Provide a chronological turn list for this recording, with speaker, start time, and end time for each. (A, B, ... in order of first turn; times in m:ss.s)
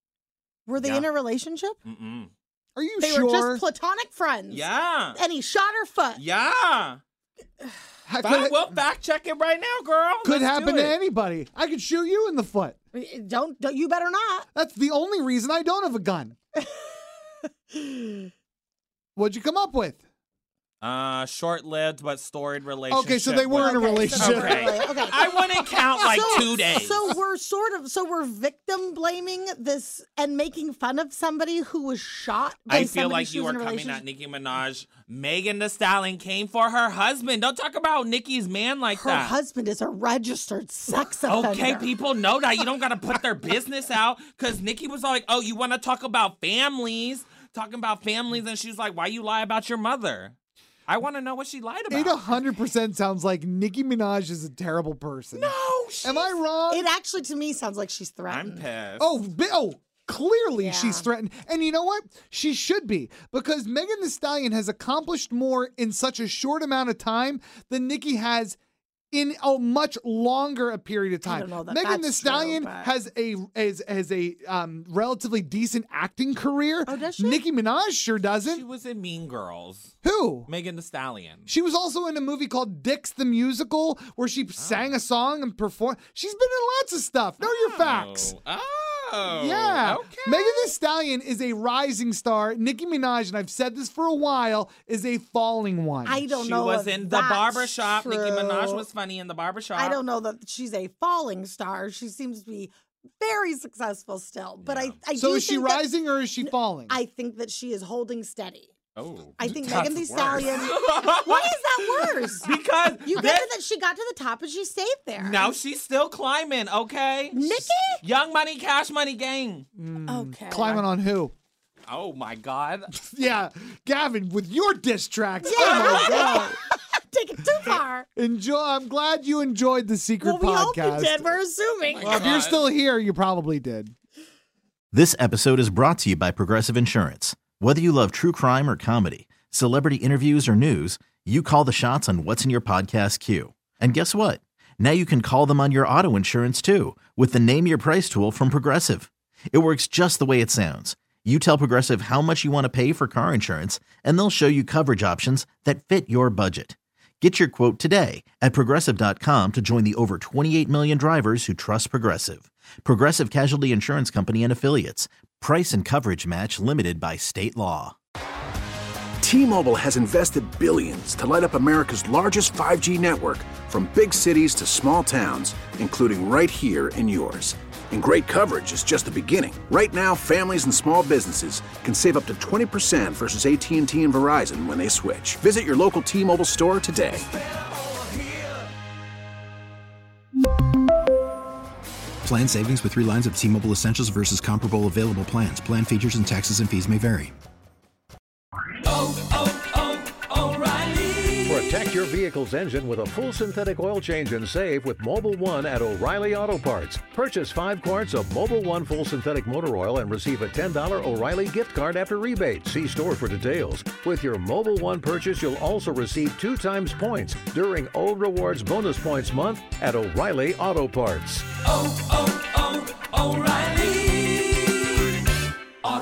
0:00.7-0:01.8 A
0:00.8-0:01.1 B
0:01.8-0:02.3 B
0:02.8-0:03.6 C
0:03.0-0:06.2 A
0:04.5-0:05.2 B
0:06.2-0:07.0 B
0:08.1-0:08.7 C
0:08.2-0:11.0 B
0:10.2-0:12.8 C
0:12.9-0:14.5 A
0:14.5-0:16.4 C
0:16.6-0:16.9 A
0:17.7-0:18.3 A
0:19.2-0:20.0 C
0:20.8-0:27.1 B
0:22.9-0:25.3 C
0:23.6-0:25.4 A
0:26.0-0:34.0 A
0:26.2-0:26.4 C
0:32.7-0:39.4 B
0:38.9-0:41.9 A
0:41.2-0:50.4 B
0:50.9-0:52.4 B
0:51.9-0:56.9 C
0:55.3-0:56.4 B
0:56.7-0:58.7 A
0:58.3-0:59.1 B
0:59.0-1:08.6 C
1:00.6-1:01.1 A
1:09.1-1:18.6 C
1:11.2-1:12.9 A
1:16.9-1:17.4 A
1:18.4-1:20.0 B
1:20.0-1:20.5 C
1:20.5-1:21.5 B
1:21.5-1:28.3 C
1:24.6-1:24.9 B
1:27.4-1:30.7 B
1:29.3-1:36.3 C
1:36.0-1:38.9 A
1:36.3-1:40.0 B
1:39.8-1:48.7 A
1:44.6-1:45.0 B
1:45.2-1:47.0 C
1:49.0-1:53.5 B
1:49.4-1:52.5 A
1:53.0-1:55.5 A
1:55.2-1:59.7 B
1:57.3-1:58.0 A
1:59.8-2:01.3 C
2:00.1-2:00.9 A
2:01.9-2:02.9 B
2:02.9-2:06.6 C
2:05.4-2:08.1 A
2:05.6-2:06.5 B
2:08.2-2:11.4 C
2:10.2-2:12.2 A
2:12.0-2:13.9 C
2:12.0-2:12.6 B
2:14.9-2:48.0 D
2:49.2-3:07.3 E
3:12.2-3:17.3 F
3:21.4-3:41.5 G